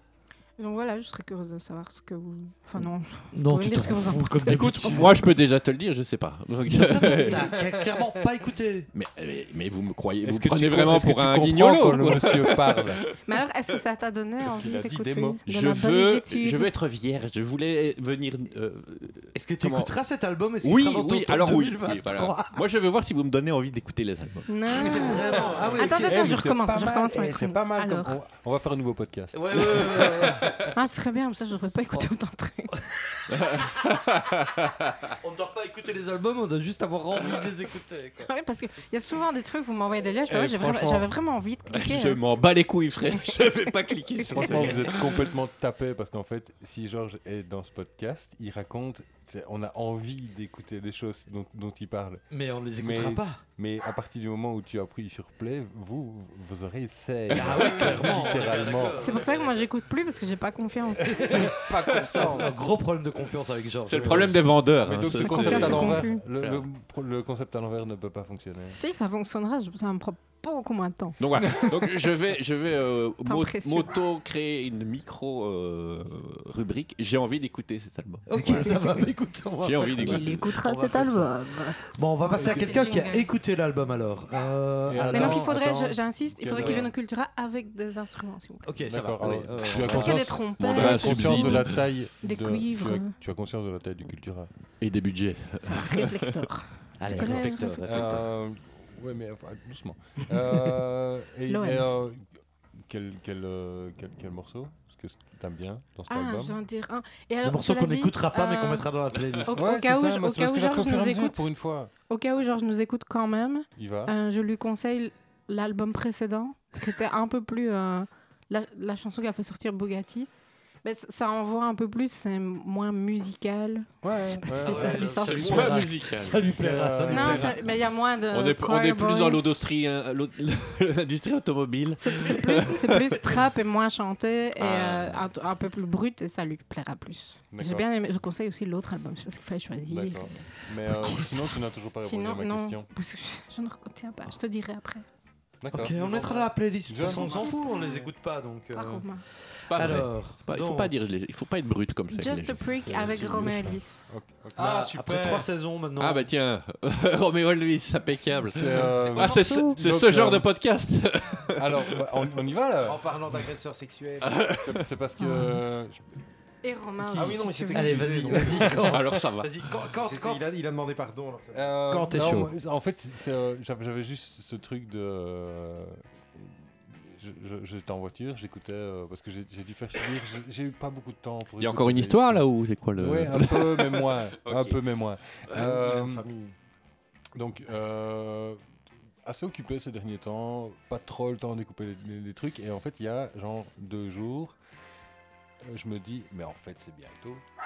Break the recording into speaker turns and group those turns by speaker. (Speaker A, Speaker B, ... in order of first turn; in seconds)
Speaker A: 0.6-5.2, 13.2-16.7, 24.5-28.1, 30.7-32.8, 38.2-42.2, 43.1-43.5, 59.0-61.4, 65.1-66.2, 68.7-71.9, 73.2-73.9, 79.9-83.3, 85.1-88.7, 89.8-93.1, 95.6-98.2, 101.5-101.9, 106.1-108.9, 109.4-111.5, 112.1-120.3, 120.8-125.8, 127.1-129.4, 132.0-140.5, 141.1-141.3, 142.0-145.0, 147.0-147.4, 148.7-149.2, 152.1-154.0, 165.2-165.6, 166.6-168.2
Speaker B: 3.3-5.2, 6.7-8.9, 10.2-12.2, 19.3-22.6, 24.7-26.4, 29.3-30.7, 35.2-38.3, 44.3-45.0, 52.3-53.4, 57.3-59.5, 61.1-61.6, 62.1-64.5, 78.3-81.2, 81.9-85.9, 86.5-86.8, 88.6-90.3, 97.0-98.2, 107.4-109.6, 124.6-127.6, 145.7-150.9, 154.6-156.3, 167.7-170.5, 171.9-172.5
Speaker C: 4.5-7.6, 8.9-13.2, 15.5-19.9, 20.6-25.2, 30.2-30.6, 33.3-35.1, 41.7-45.2, 57.3-57.8, 61.9-62.4, 63.8-66.6, 71.2-78.9, 79.6-81.2, 90.6-91.8, 94.8-96.5, 124.9-126.5, 128.3-133.4, 134.6-135.3, 149.7-153.7, 156.0-162.0, 164.2-164.8, 168.8-169.6, 181.6-184.8
Speaker D: 11.5-13.0, 14.4-15.4, 25.9-30.4, 40.3-41.1, 44.3-52.2, 52.7-59.1, 61.3-62.5, 64.8-68.8, 82.3-83.0, 84.8-85.6, 86.3-86.9, 88.8-94.5, 97.8-106.6, 109.5-111.9, 113.8-114.1, 124.0-125.1, 126.5-127.6, 137.5-137.8, 139.9-142.9, 145.6-148.0, 152.8-154.7, 158.5-160.5, 161.5-163.1, 164.5-166.1, 168.3-168.8, 171.5-182.4, 183.0-186.2, 187.3-188.6, 189.2-194.6, 195.6-197.4
Speaker E: 154.6-155.5, 162.8-164.5, 167.2-168.9, 170.0-171.8, 185.5-186.5